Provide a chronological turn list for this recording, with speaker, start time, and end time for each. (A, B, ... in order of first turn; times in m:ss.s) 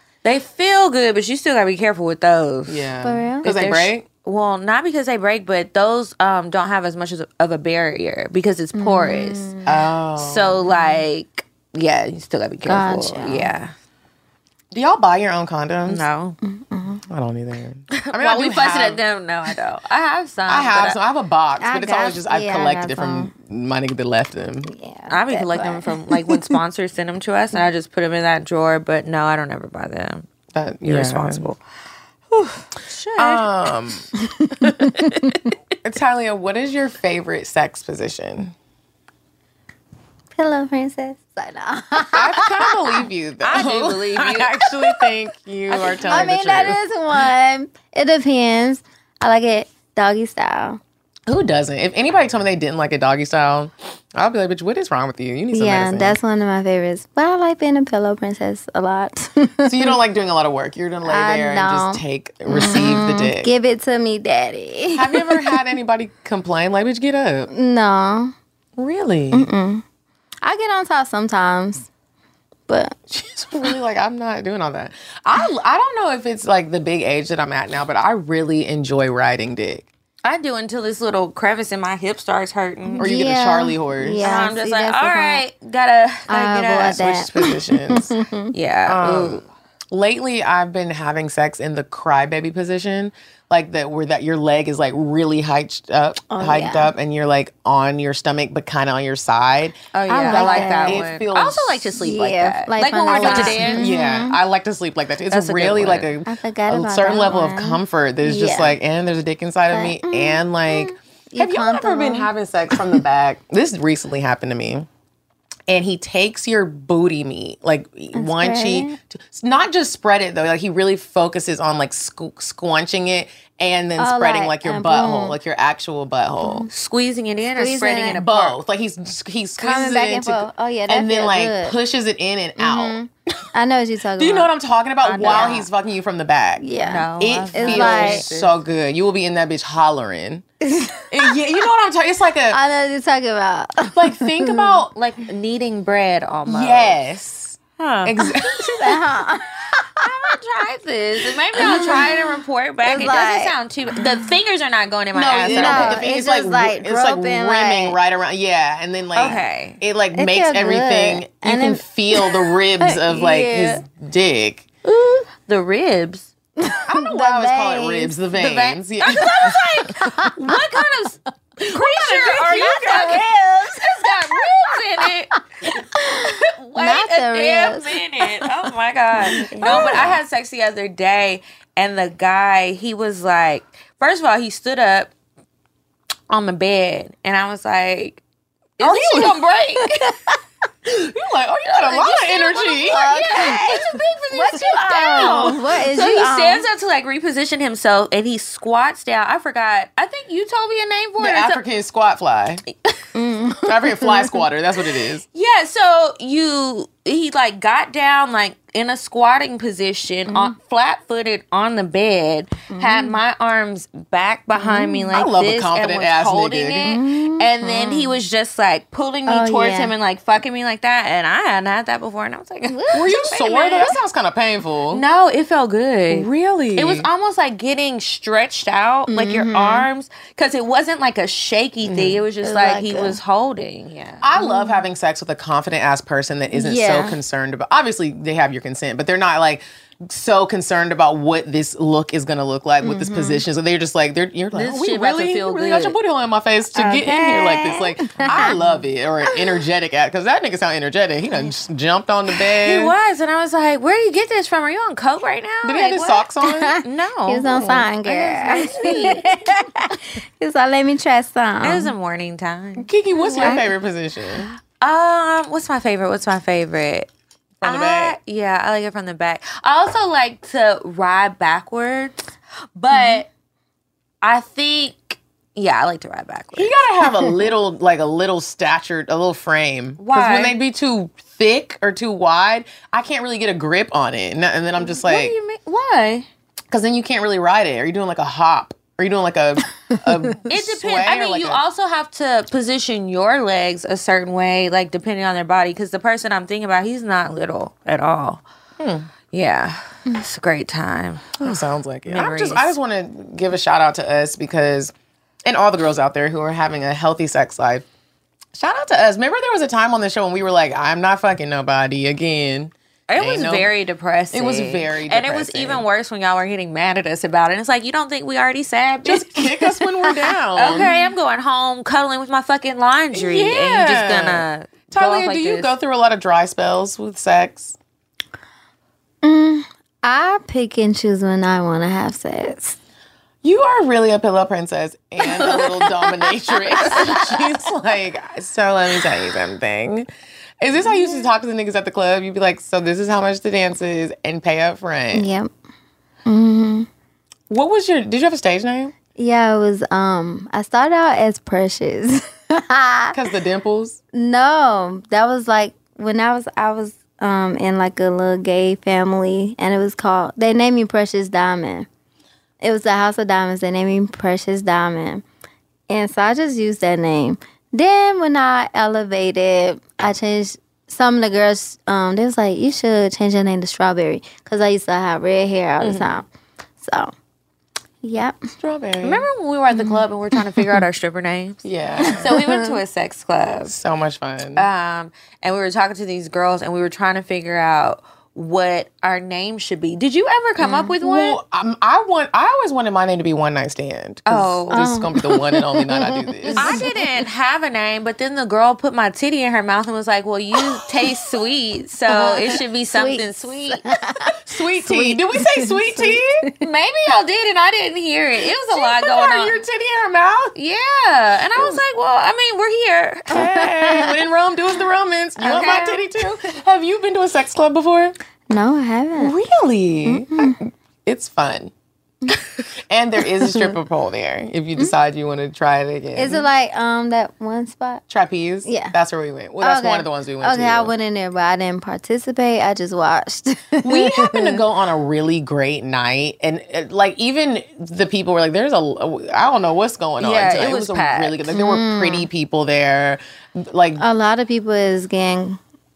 0:00.2-0:02.9 A
0:02.7-0:04.1 B
0:03.0-0:03.5 C
0:03.4-0:09.5 A
0:08.7-0:09.7 C
0:09.7-0:10.7 B
0:10.2-0:13.7 A
0:12.7-0:13.5 C
0:14.7-0:16.0 B
0:15.9-0:16.4 A
0:16.4-0:17.0 C
0:17.1-0:19.0 B
0:18.0-0:21.0 A
0:20.5-0:24.7 B
0:21.6-0:23.3 C
0:24.7-0:26.4 C
0:25.1-0:30.3 A
0:30.5-0:31.5 B
0:30.8-0:31.6 A
0:32.3-0:33.5 A
0:33.2-0:34.1 B
0:34.4-0:35.3 C
0:34.6-0:35.3 B
0:35.8-0:38.5 B
0:40.4-0:42.8 C
0:42.1-0:46.8 B
0:43.4-0:44.6 A
0:45.7-0:46.7 A
0:46.1-0:50.8 C
0:51.3-0:56.2 B
0:55.5-1:00.0 C
0:59.6-1:03.5 B
1:01.0-1:05.5 C
1:04.9-1:07.5 B
1:07.5-1:08.3 C
1:08.8-1:09.5 B
1:09.3-1:09.8 C
1:10.4-1:11.9 C
1:12.7-1:13.0 C
1:13.1-1:19.9 B
1:20.2-1:23.1 A
1:22.9-1:25.4 C
1:23.0-1:24.5 B
1:24.2-1:27.1 A
1:26.3-1:28.5 C
1:26.9-1:28.1 B
1:28.5-1:29.4 A
1:28.9-1:41.9 B
1:36.3-1:36.9 C
1:40.0-1:43.9 A
1:40.1-1:41.0 C
1:42.0-1:44.4 C
1:43.1-1:54.9 B
1:45.3-1:46.1 A
1:46.3-1:48.8 C
1:49.7-1:52.3 C
1:55.7-2:06.7 B
1:58.2-1:59.0 C
2:04.0-2:05.4 C
2:06.4-2:06.7 C
2:06.7-2:08.6 A
2:07.6-2:08.2 C
2:08.2-2:13.0 B
2:09.6-2:11.8 C
2:12.6-2:14.5 C
2:14.2-2:20.4 B
2:15.0-2:15.7 A
2:15.2-2:15.6 C
2:16.6-2:18.3 C
2:16.8-2:18.5 A
2:20.6-2:21.3 C
2:21.1-2:22.6 B
2:22.5-2:24.8 C
2:23.9-2:24.9 B
2:24.9-2:27.0 A
2:26.5-2:29.0 B
2:27.8-2:28.2 A
2:28.8-2:30.3 C
2:30.0-2:36.0 A
2:31.6-2:32.2 C
2:32.9-2:33.5 C
2:35.1-2:44.7 B
2:35.5-2:38.0 C
2:39.2-2:39.8 A
2:40.2-2:42.5 C
2:43.1-2:43.8 A
2:44.8-2:46.3 A
2:46.6-2:48.2 C
2:46.9-2:49.6 B
2:48.4-2:51.2 A
2:49.2-2:50.6 C
2:51.7-2:55.3 A
2:51.7-2:53.3 B
2:51.7-2:54.0 C
2:56.0-2:58.0 C
2:56.4-3:05.1 A
2:59.2-3:00.2 B
2:59.2-3:00.0 C
3:06.3-3:08.2 A
3:08.8-3:10.2 A
3:08.8-3:09.3 B
3:10.8-3:13.8 B
3:11.7-3:21.6 A
3:12.9-3:16.6 C
3:14.8-3:15.6 B
3:21.2-3:22.6 B
3:23.2-3:24.4 C
3:23.7-3:25.2 B
3:25.3-3:43.9 A
3:32.7-3:33.2 C
3:34.6-3:35.1 C
3:35.1-3:36.9 B
3:36.8-3:38.2 C
3:39.3-3:39.9 C
3:42.7-3:43.3 C
3:42.9-3:45.0 B
3:44.9-3:54.2 A
3:46.1-3:47.1 B
3:49.1-3:49.9 C
3:51.8-3:52.2 B
3:52.4-3:53.2 C
3:54.2-4:12.9 B
3:54.4-3:54.8 C
3:56.5-3:57.2 C
4:02.8-4:03.4 C
4:04.5-4:06.0 A
4:06.8-4:08.6 C
4:08.3-4:08.6 A
4:12.6-4:16.3 A
4:15.6-4:16.8 B
4:16.4-4:21.9 C
4:16.8-4:19.3 A
4:17.5-4:17.8 B
4:21.6-4:23.6 A
4:22.8-4:24.5 B
4:23.2-4:23.6 C
4:24.8-4:27.1 A
4:27.6-4:28.2 B
4:27.6-4:32.2 A
4:32.8-4:33.3 A
4:32.9-4:33.2 C
4:34.2-4:36.8 A
4:36.6-4:45.4 B
4:40.0-4:40.6 A
4:44.8-4:46.3 A
4:46.7-4:51.6 B
4:50.5-4:58.4 A
4:58.8-4:59.1 B
4:59.3-5:02.7 A
5:01.4-5:04.9 B
5:05.5-5:07.9 B
5:08.5-5:13.7 B
5:13.1-5:19.8 A
5:14.3-5:15.8 B
5:19.0-5:20.9 B
5:20.6-5:25.7 A
5:23.1-5:27.8 B
5:29.2-5:32.8 C
5:33.4-5:40.1 B
5:35.2-5:37.3 A
5:40.6-5:45.3 B
5:45.1-5:45.5 C
5:46.3-5:46.9 C
5:47.5-5:48.9 B
5:49.2-5:53.2 C
5:53.1-5:54.0 B
5:54.1-6:01.9 C
6:02.6-6:05.2 C
6:05.9-6:16.3 C
6:15.8-6:16.1 B
6:16.8-6:17.1 C
6:18.0-6:18.4 C
6:18.6-6:19.2 B
6:19.0-6:23.8 A
6:21.6-6:22.4 B
6:22.0-6:22.7 C
6:23.7-6:24.7 B
6:24.6-6:31.4 A
6:30.6-6:30.9 C
6:31.0-6:36.8 B
6:34.3-6:34.9 A
6:34.7-6:36.9 C
6:36.6-6:44.0 A
6:42.1-6:46.4 C
6:44.4-6:46.5 B
6:46.6-6:49.6 A
6:48.7-6:50.5 B
6:50.6-6:54.0 A
6:53.3-6:58.2 B
6:55.4-6:56.1 A
6:58.5-6:59.4 C
6:59.2-7:01.7 B
7:00.1-7:00.6 C
7:02.9-7:06.4 B
7:06.2-7:08.0 C
7:08.1-7:10.9 B
7:08.6-7:09.0 C
7:09.6-7:14.6 C
7:13.8-7:24.0 B
7:20.2-7:21.4 A
7:21.5-7:22.3 C
7:24.0-7:25.6 C